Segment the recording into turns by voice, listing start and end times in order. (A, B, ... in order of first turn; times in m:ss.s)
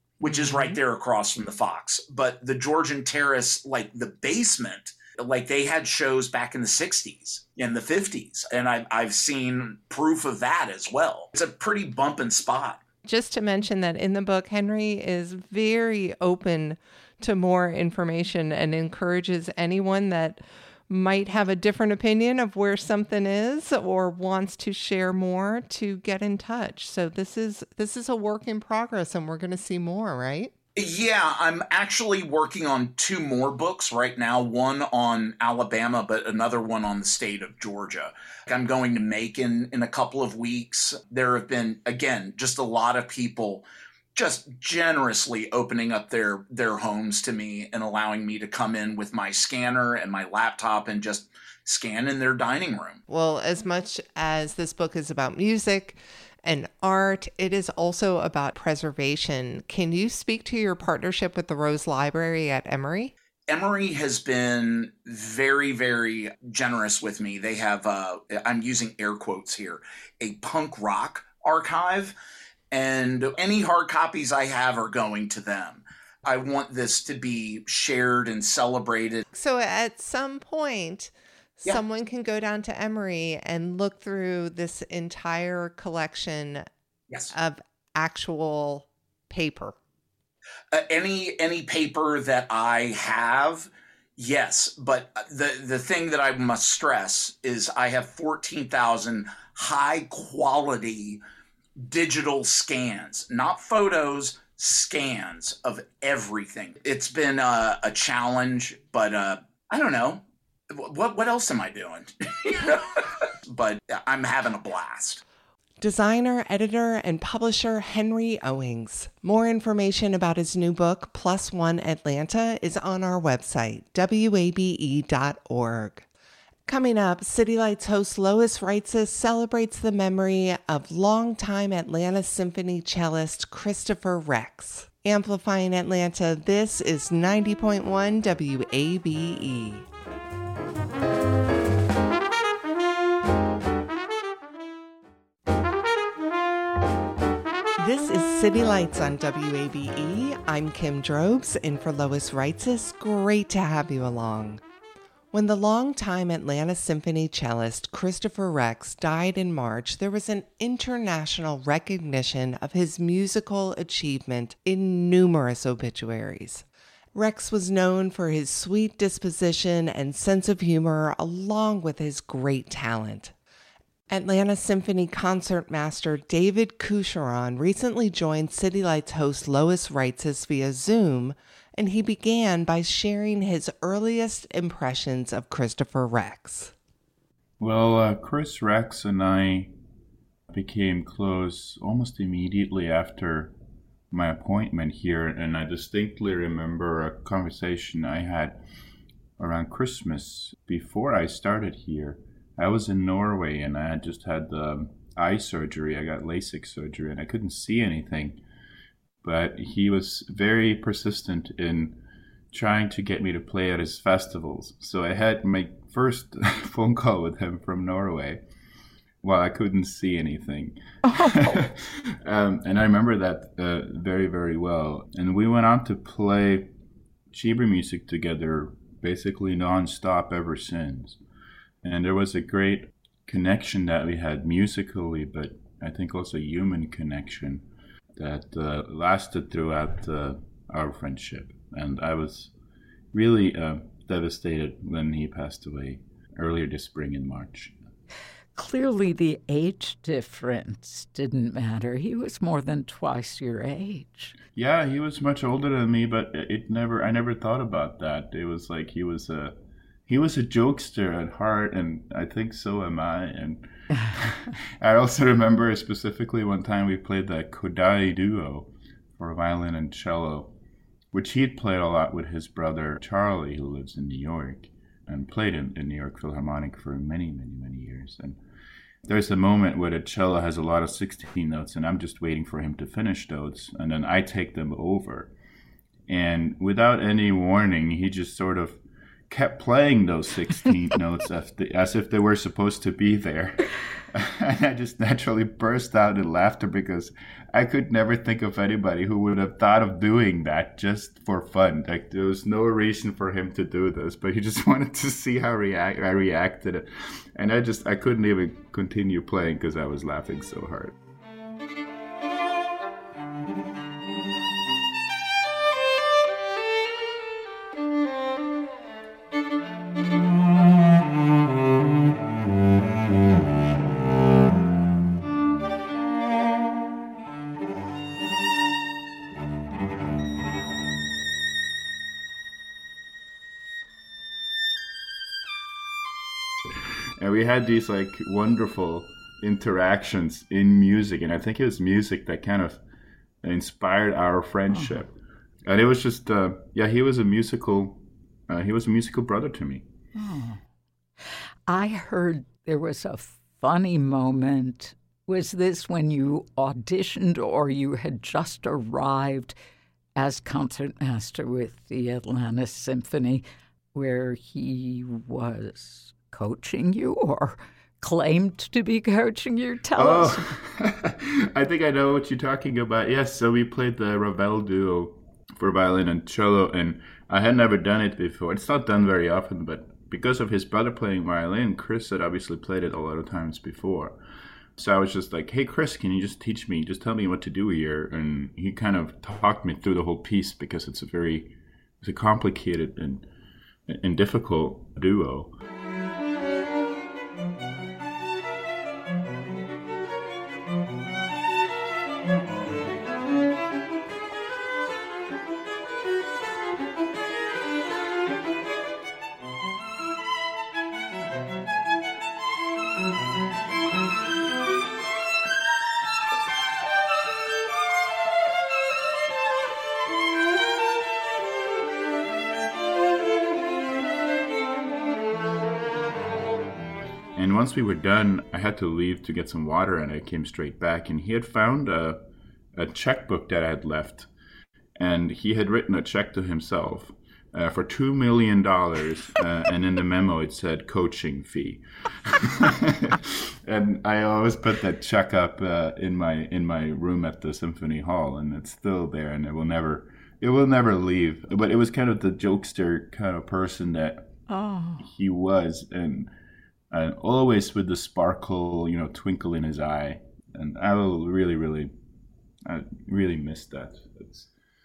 0:00.2-0:12.8 A
0:00.2-0:00.8 B
0:13.0-0:30.5 B
0:30.8-0:53.0 A
0:53.1-1:03.1 B
1:03.5-1:12.1 A
1:12.7-1:19.2 A
1:19.3-1:26.6 B
1:27.3-1:29.8 B
1:30.7-1:41.2 A
1:41.8-1:55.2 A
1:55.8-2:06.0 B
2:06.6-2:19.9 B
2:27.8-2:34.6 B
2:35.3-2:53.3 B
2:54.1-3:06.7 B
3:07.6-3:09.7 C
3:10.5-3:13.5 C
3:14.1-3:18.6 C
3:19.4-3:28.4 C
3:29.2-3:32.0 C
3:32.5-3:38.4 C
3:39.2-3:46.7 C
3:41.1-3:41.5 D
3:47.3-3:51.2 C
3:51.8-4:02.5 C
4:03.1-4:07.7 C
4:08.5-4:14.4 D
4:14.5-4:30.5 C
4:31.1-4:38.4 C
4:39.0-4:45.3 C
4:46.1-5:10.9 C
5:37.2-5:42.8 C
5:43.4-5:45.1 C
5:44.7-5:45.1 D
5:45.6-5:49.8 C
5:50.2-5:50.6 D
5:51.7-5:59.6 D
6:00.2-6:10.6 D
6:10.0-6:24.2 C
6:24.8-6:33.3 C
6:33.9-6:35.5 C
7:07.3-7:12.2 C
7:12.8-7:14.3 C
7:15.0-7:34.4 C
7:34.5-7:35.1 D
7:35.0-7:36.3 C
7:36.9-7:41.9 C
7:42.6-7:44.5 C